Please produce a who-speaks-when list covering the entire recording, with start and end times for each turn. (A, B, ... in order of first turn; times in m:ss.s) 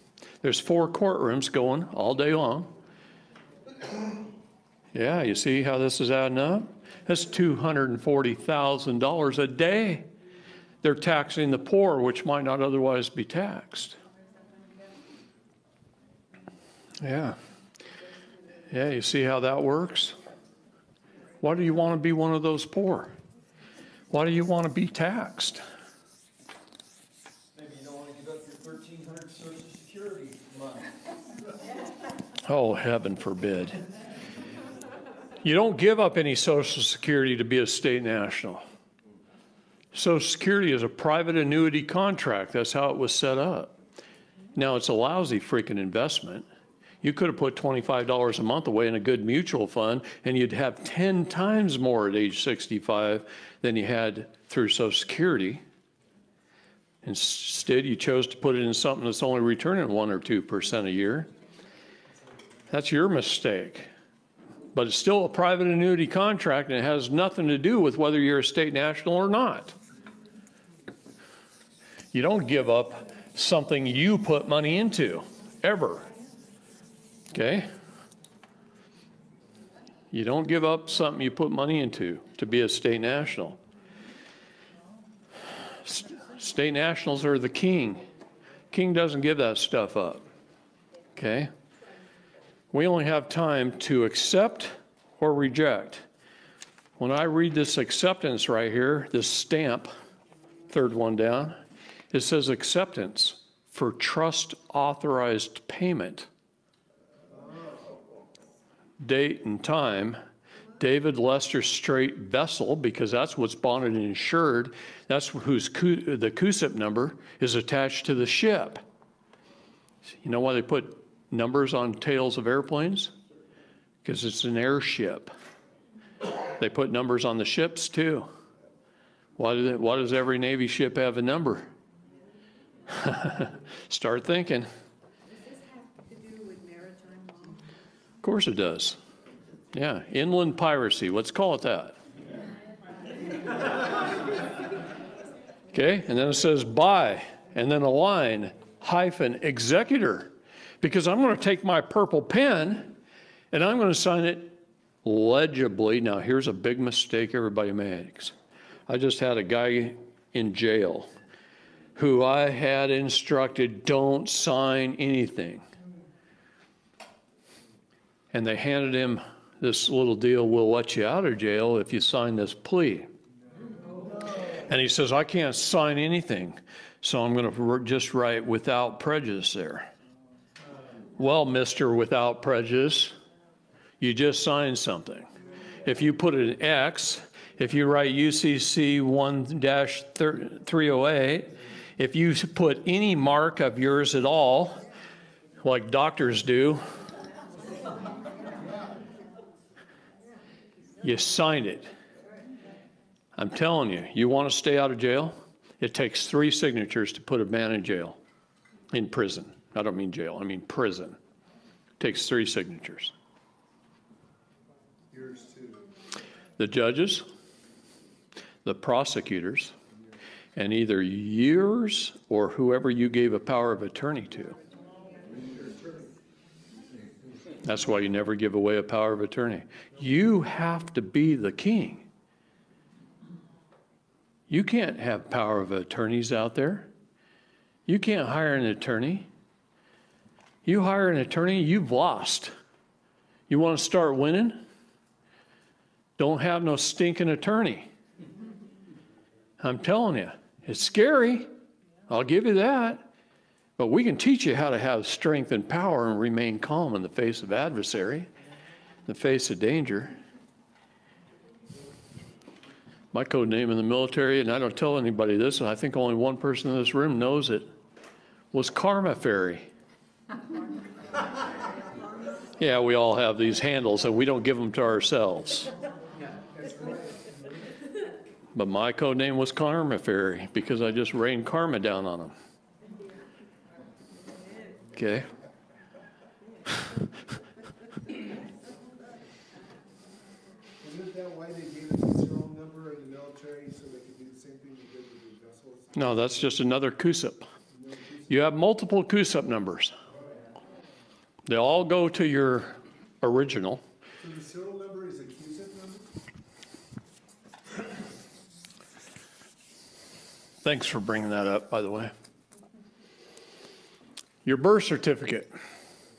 0:00.4-0:02.7 A
0:04.9-0:10.1 A
0:10.8-0:14.0 A
0:17.0-0:17.4 A
0:18.7-0:20.2 A
0:21.4-0:23.2 A
0:24.1-0:25.6 A
0:27.5-0:30.9 B
0:32.4-0:33.8 A
0:35.4-0:38.6 A
0:39.9-0:43.8 A
0:44.6-0:46.5 A
0:47.0-0:55.6 A
0:57.0-1:01.3 A
1:02.7-1:03.9 A
1:04.7-1:09.8 A
1:12.1-1:16.1 A
1:17.3-1:17.7 A
1:20.1-1:23.6 A
1:25.8-1:28.1 A
1:28.7-1:30.3 A
1:31.2-1:31.5 A
1:32.7-1:36.0 A
1:37.0-1:39.9 A
1:40.7-1:41.6 A
1:42.1-1:46.3 A
1:49.0-1:50.2 A
1:50.8-1:58.8 A
2:00.2-2:03.1 A
2:04.0-2:05.3 A
2:06.6-2:08.3 A
2:09.4-2:11.7 A
2:12.9-2:14.7 A
2:15.3-2:17.6 C
2:18.2-2:19.0 A
2:19.7-2:22.0 A
2:25.7-2:33.0 A
2:33.5-2:38.4 A
2:38.9-2:41.1 A
2:42.0-2:45.6 A
2:48.3-2:53.1 A
2:54.5-2:59.9 A
3:01.2-3:03.2 A
3:04.0-3:05.3 A
3:05.8-3:14.9 A
3:15.6-3:16.8 A
3:21.0-3:21.9 A
3:23.4-3:28.2 A
3:28.9-3:31.2 A
3:32.0-3:33.1 A
3:35.1-3:35.8 D
3:36.6-3:37.3 A
3:38.6-3:39.7 A
3:40.6-3:44.6 A
3:45.2-3:46.1 D
3:47.6-3:52.1 A
3:54.5-3:56.9 A
3:57.9-3:59.3 A
4:00.6-4:02.5 A
4:03.5-4:04.6 A
4:06.2-4:07.9 A
4:09.6-4:11.5 A
4:12.1-4:13.1 A
4:13.8-4:18.3 A
4:19.1-4:20.2 A
4:23.1-4:27.7 A
4:28.5-4:29.7 A
4:32.6-4:35.7 A
4:36.6-4:37.3 D
4:38.6-4:42.4 A
4:44.9-4:45.3 A
4:50.8-4:56.2 D
4:56.0-4:57.5 A
4:57.7-4:58.3 D
4:58.3-5:00.0 A
5:01.5-5:03.8 A
5:04.2-5:06.1 D
5:10.6-5:12.1 A
5:14.4-5:15.5 A